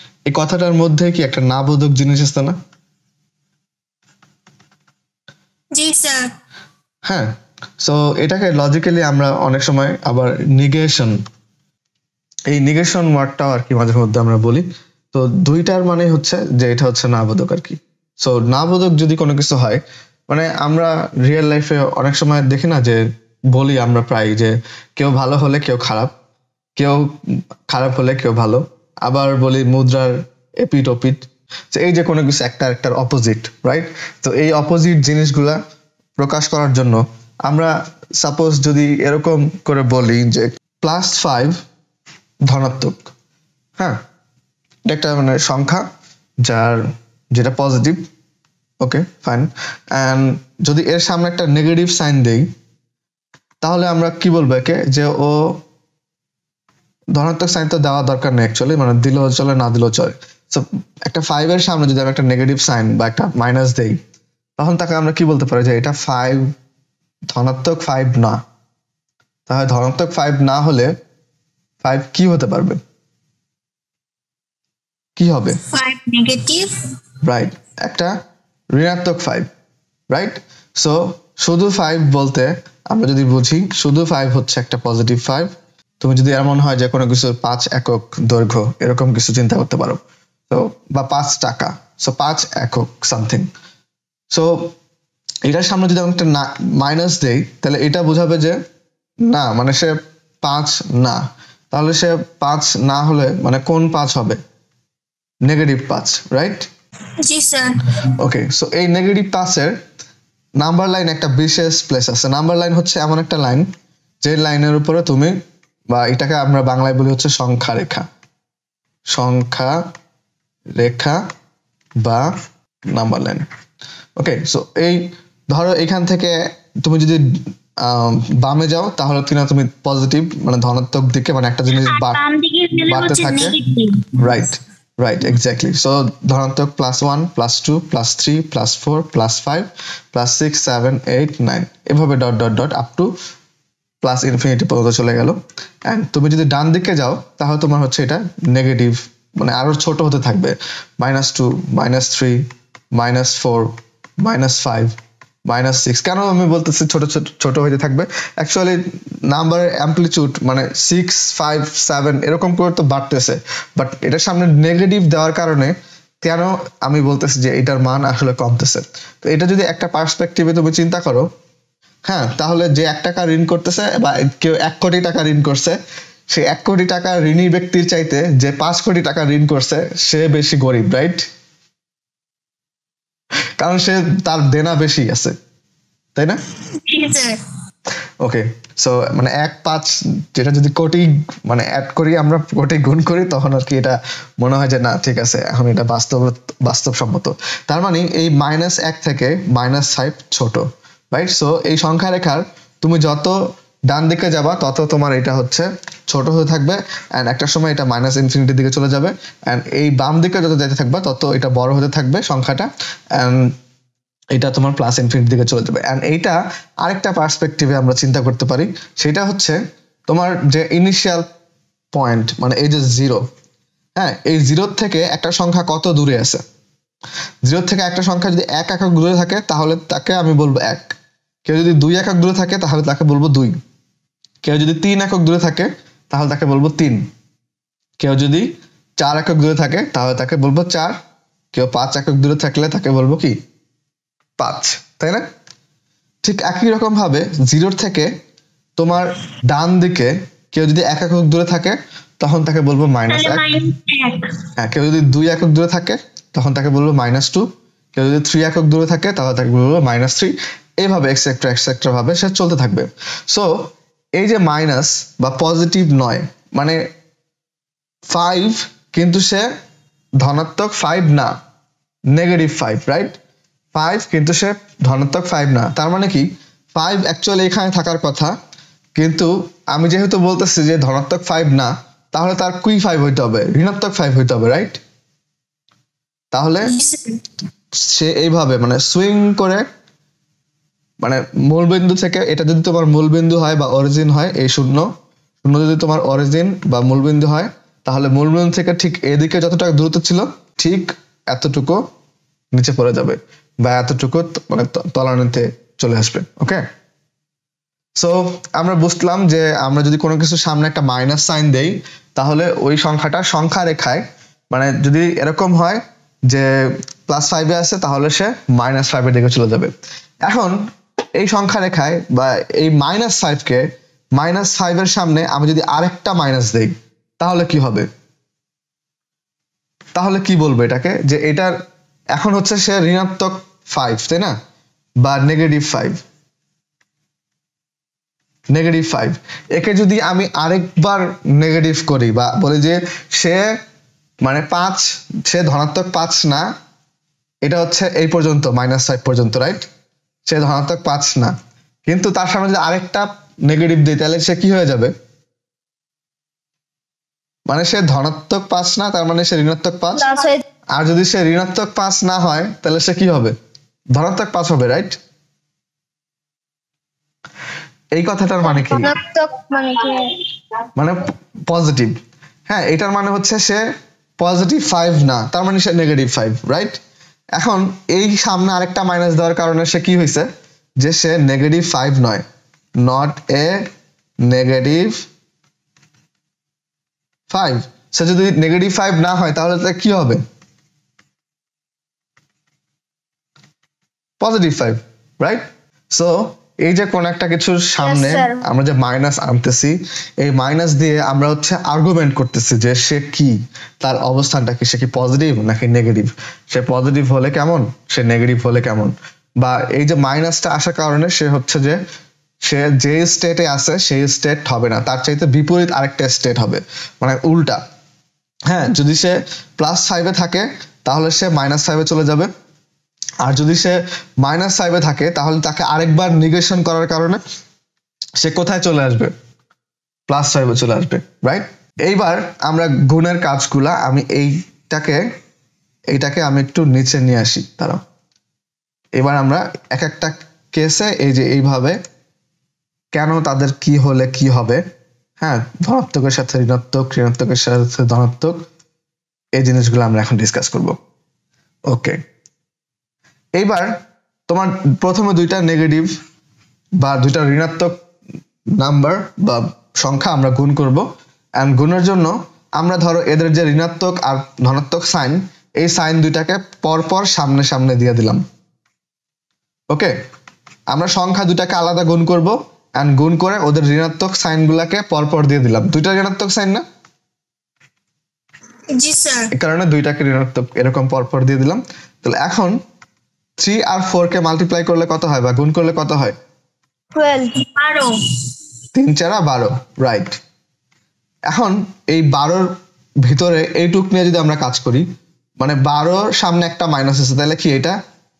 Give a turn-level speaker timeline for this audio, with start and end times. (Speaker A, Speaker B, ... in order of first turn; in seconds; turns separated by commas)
Speaker A: 0.3-2.5, Speaker B: 5.8-6.3, Speaker A: 7.8-11.2, Speaker A: 12.5-23.0, Speaker A: 23.5-26.1, Speaker A: 26.8-27.1, Speaker A: 27.7-35.6, Speaker A: 36.2-41.6, Speaker A: 42.5-43.1, Speaker A: 44.9-45.8, Speaker A: 46.4-46.8, Speaker A: 47.3-48.0, Speaker A: 48.8-52.5, Speaker A: 53.6-55.6, Speaker A: 57.1-64.0, Speaker A: 64.6-66.5, Speaker A: 67.3-68.4, Speaker A: 69.5-70.9, Speaker A: 71.8-72.8, Speaker A: 75.2-75.6, Speaker B: 75.6-76.7, Speaker A: 77.2-78.1, Speaker A: 78.7-79.5, Speaker A: 80.1-93.5, Speaker A: 94.3-94.8, Speaker A: 95.5-98.6, Speaker A: 99.3-101.2, Speaker A: 101.7-104.4, Speaker A: 105.5-106.7, Speaker B: 107.2-108.0, Speaker A: 108.2-109.8, Speaker A: 110.6-113.7, Speaker A: 114.2-115.4, Speaker A: 115.9-118.1, Speaker A: 119.1-119.8, Speaker A: 120.8-121.2, Speaker A: 122.0-122.3, Speaker A: 122.9-123.5, Speaker A: 124.2-127.2, Speaker A: 127.8-132.2, Speaker B: 131.7-134.4, Speaker A: 132.9-133.6, Speaker A: 134.2-143.1, Speaker A: 144.0-154.9, Speaker A: 155.5-171.3, Speaker A: 172.1-175.8, Speaker A: 176.3-181.2, Speaker A: 183.6-185.3, Speaker A: 186.2-186.4, Speaker B: 186.8-187.4, Speaker A: 188.2-203.4, Speaker A: 203.9-213.5, Speaker A: 214.3-221.3, Speaker A: 221.9-223.2, Speaker A: 224.0-226.4, Speaker A: 227.4-230.9, Speaker A: 231.4-233.6, Speaker A: 234.4-237.0, Speaker A: 238.0-241.0, Speaker A: 241.5-243.4, Speaker A: 244.4-245.3, Speaker A: 246.2-248.1, Speaker A: 248.8-253.4, Speaker B: 253.1-254.4, Speaker A: 254.6-266.8, Speaker A: 268.1-269.5, Speaker A: 270.2-271.3, Speaker A: 272.1-273.1, Speaker A: 273.7-278.3, Speaker A: 279.0-284.8, Speaker A: 286.3-286.8, Speaker B: 286.7-287.2, Speaker A: 287.8-289.7, Speaker A: 291.0-294.9, Speaker A: 295.4-301.8, Speaker A: 302.5-306.6, Speaker A: 308.0-319.7, Speaker A: 320.2-320.6, Speaker A: 321.2-327.9, Speaker A: 330.0-331.5, Speaker A: 332.1-334.3, Speaker A: 335.0-336.0, Speaker A: 338.5-343.5, Speaker A: 344.2-346.5, Speaker A: 347.4-349.7, Speaker A: 350.3-351.3, Speaker A: 351.9-354.9, Speaker A: 357.5-360.1, Speaker C: 359.9-360.4, Speaker A: 360.8-363.4, Speaker A: 363.9-365.0, Speaker A: 368.0-368.9, Speaker C: 368.4-370.1, Speaker A: 370.8-372.0, Speaker A: 372.5-373.6, Speaker A: 374.2-376.8, Speaker A: 377.4-380.3, Speaker A: 380.8-382.2, Speaker A: 382.8-383.7, Speaker A: 384.3-385.1, Speaker A: 387.3-390.2, Speaker A: 394.2-411.8, Speaker C: 397.8-398.4, Speaker A: 412.4-417.6, Speaker A: 418.5-422.3, Speaker A: 423.2-427.2, Speaker A: 428.2-429.1, Speaker A: 430.1-435.0, Speaker A: 435.9-437.8, Speaker A: 439.0-441.8, Speaker A: 442.9-444.6, Speaker A: 445.2-448.4, Speaker A: 449.4-450.8, Speaker A: 451.7-452.0, Speaker A: 453.4-455.9, Speaker A: 456.8-457.8, Speaker A: 458.6-460.9, Speaker A: 461.4-468.2, Speaker A: 470.7-476.6, Speaker B: 478.8-479.3, Speaker A: 479.3-482.6, Speaker A: 483.4-486.1, Speaker C: 486.9-487.4, Speaker B: 487.5-487.9, Speaker A: 488.8-490.2, Speaker A: 491.3-492.5, Speaker A: 493.1-494.9, Speaker A: 495.4-497.8